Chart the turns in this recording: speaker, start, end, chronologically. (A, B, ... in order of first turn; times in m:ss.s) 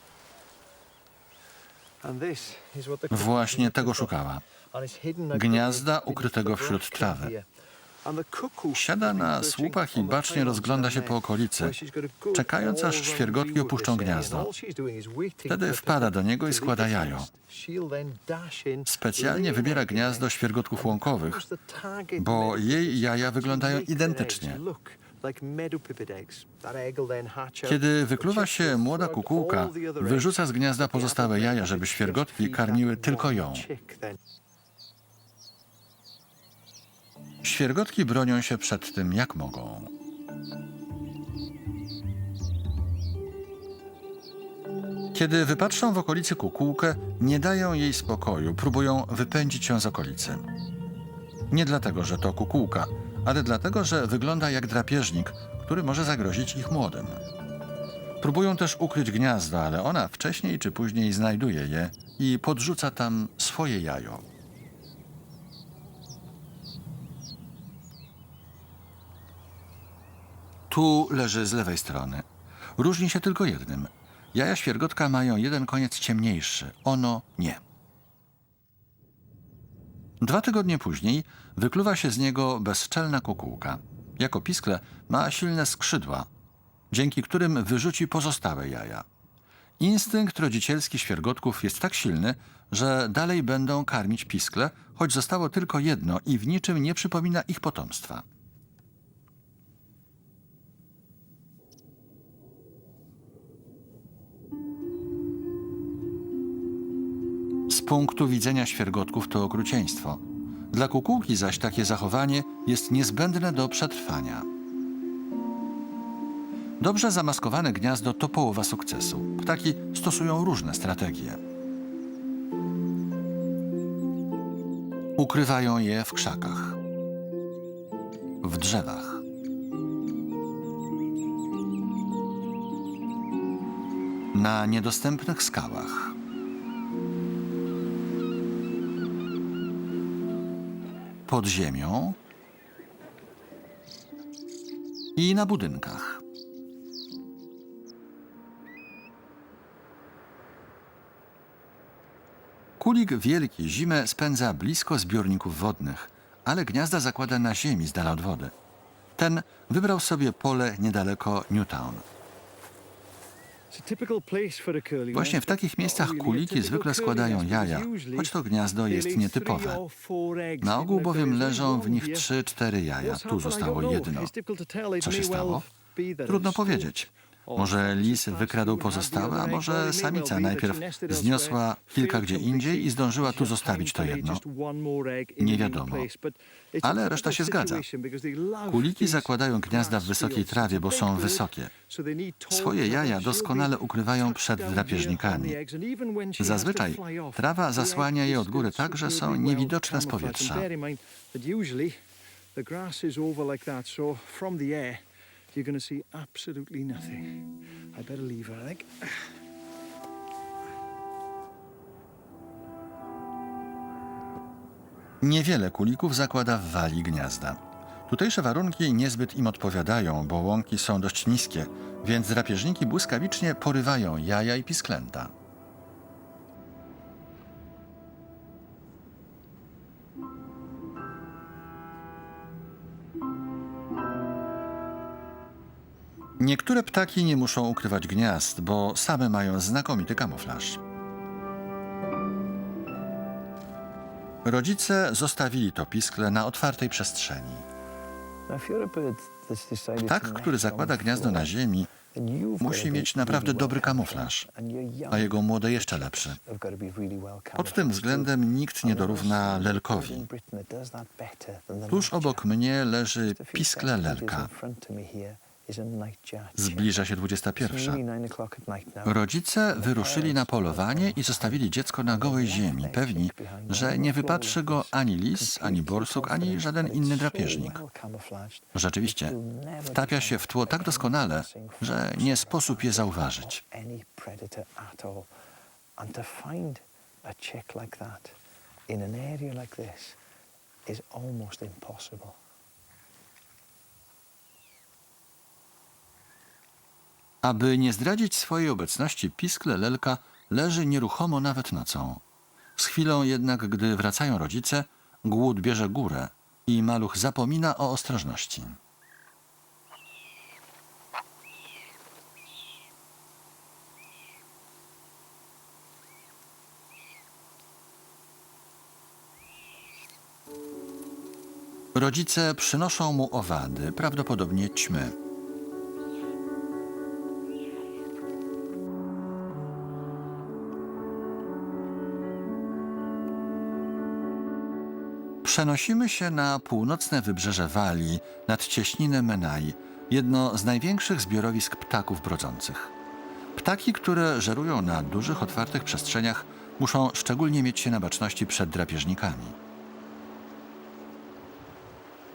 0:02.0-0:07.4 A
0:03.1-0:04.4 B
0:05.3-0:07.3 B
0:08.0-0:34.2 A
0:08.7-0:11.8 B
0:12.3-0:14.5 B
0:15.5-0:17.3 B
0:18.8-0:21.4 B
0:22.2-0:24.6 B
0:27.6-0:33.7 B
0:37.4-0:39.9 B
0:45.1-0:50.4 B
0:51.5-0:57.2 B
0:58.2-1:04.2 B
1:10.7-1:12.2 B
1:12.8-1:17.6 B
1:20.2-1:26.3 B
1:26.9-1:29.0 B
1:29.8-1:38.2 B
1:47.7-1:54.5 B
1:56.8-2:01.4 B
2:05.2-2:06.8 B
2:08.4-2:09.2 B
2:14.3-2:16.2 B
2:21.3-2:22.2 B
2:25.2-2:26.2 B
2:32.8-2:38.5 B
2:39.2-2:42.0 B
2:43.7-2:52.3 A
2:45.1-2:49.8 B
2:50.6-2:54.3 B
2:53.0-3:22.0 A
2:55.0-2:55.7 B
2:56.3-3:04.4 B
3:05.4-3:06.1 B
3:06.8-3:07.8 B
3:08.7-3:11.7 B
3:12.5-3:15.6 B
3:16.4-3:20.7 B
3:22.5-3:29.3 A
3:35.2-3:45.3 B
3:56.4-4:00.8 B
4:04.4-4:07.6 B
4:08.5-4:11.5 A
4:10.0-4:11.9 B
4:12.1-4:22.5 A
4:12.6-4:14.5 B
4:15.1-4:16.4 B
4:17.6-4:20.2 B
4:21.9-4:24.5 B
4:23.2-4:45.3 A
4:26.6-4:28.0 B
4:29.0-4:37.8 B
4:38.7-4:39.3 B
4:39.9-4:43.6 B
4:46.0-4:48.4 A
4:48.9-4:50.2 A
4:50.8-4:52.4 A
4:57.4-5:02.2 B
5:02.8-5:08.8 B
5:21.9-5:25.1 B
5:35.4-5:42.9 B
5:43.5-5:49.6 B